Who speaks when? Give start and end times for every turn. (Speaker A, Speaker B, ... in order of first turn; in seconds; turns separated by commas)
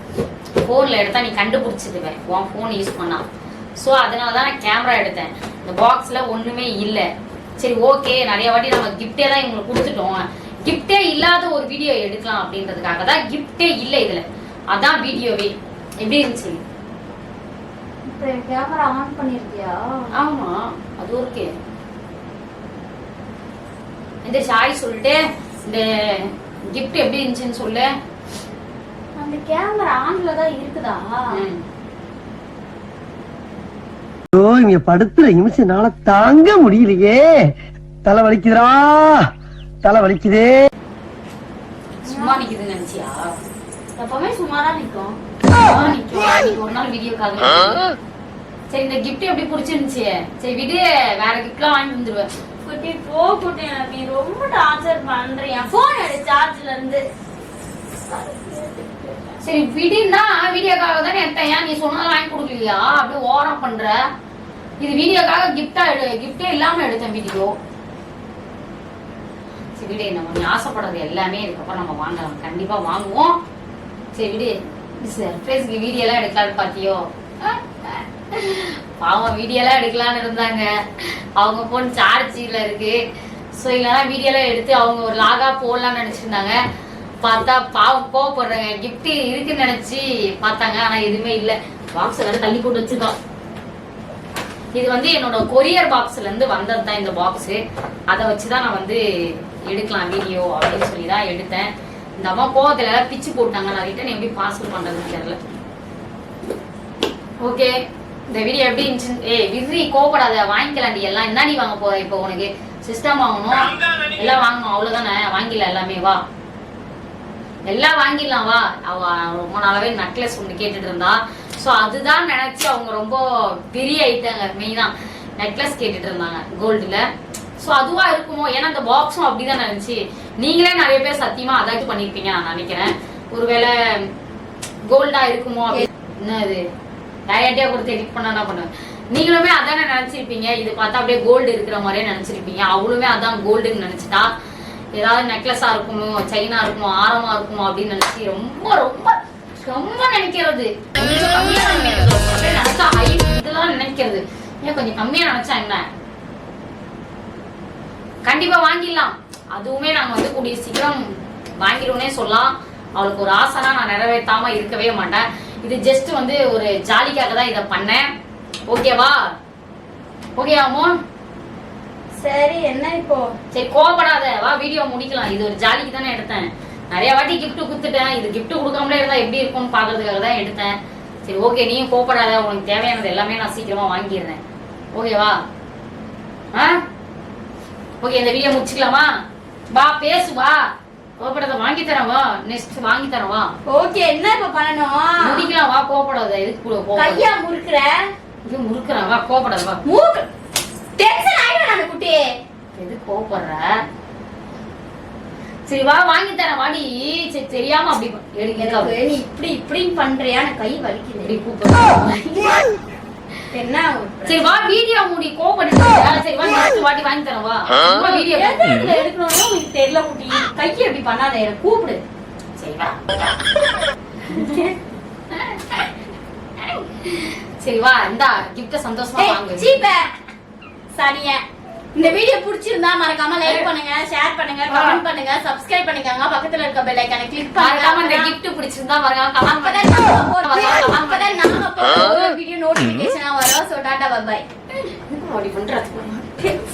Speaker A: 0.6-3.2, Speaker A: 3.8-7.0, Speaker A: 7.6-16.6, Speaker B: 18.1-20.1, Speaker A: 20.1-21.5, Speaker A: 24.2-27.9, Speaker B: 29.2-31.4, Speaker A: 31.3-31.6, Speaker C: 34.3-37.5, Speaker C: 38.0-39.3, Speaker C: 39.8-40.6, Speaker A: 42.0-43.3, Speaker B: 42.1-42.4, Speaker B: 44.0-45.2, Speaker A: 45.6-47.8, Speaker A: 48.7-52.3, Speaker B: 52.6-57.0, Speaker B: 58.1-59.4, Speaker A: 59.4-64.0, Speaker A: 64.8-67.5, Speaker A: 69.8-73.4, Speaker A: 74.2-83.0, Speaker A: 83.6-86.6, Speaker A: 87.2-93.2, Speaker A: 94.8-97.6, Speaker A: 98.1-99.0, Speaker A: 99.7-105.4, Speaker A: 107.4-107.7, Speaker A: 108.3-116.2, Speaker A: 117.7-127.0, Speaker A: 127.6-134.1, Speaker A: 134.9-136.6, Speaker A: 137.3-144.3, Speaker A: 145.0-155.8, Speaker A: 158.2-168.1, Speaker A: 168.7-169.2, Speaker A: 170.4-170.9, Speaker B: 172.2-173.3, Speaker A: 173.5-180.7, Speaker A: 181.3-184.4, Speaker A: 184.9-185.4, Speaker A: 188.0-189.1, Speaker A: 189.7-190.6, Speaker A: 191.2-193.5, Speaker B: 193.7-195.5, Speaker A: 195.2-197.2, Speaker B: 197.0-198.0, Speaker A: 198.5-199.8, Speaker B: 199.9-200.3, Speaker B: 201.0-202.3, Speaker A: 202.8-203.7, Speaker A: 205.7-208.9, Speaker B: 208.6-211.4, Speaker A: 211.2-212.6, Speaker B: 213.5-214.7, Speaker A: 214.3-218.6, Speaker B: 217.8-222.0, Speaker A: 222.6-223.0, Speaker B: 224.3-224.8, Speaker A: 227.0-229.8, Speaker B: 229.2-230.1, Speaker B: 231.0-231.4, Speaker B: 231.9-238.3, Speaker A: 234.7-235.0, Speaker A: 237.6-241.4, Speaker B: 239.6-244.4, Speaker A: 244.9-246.5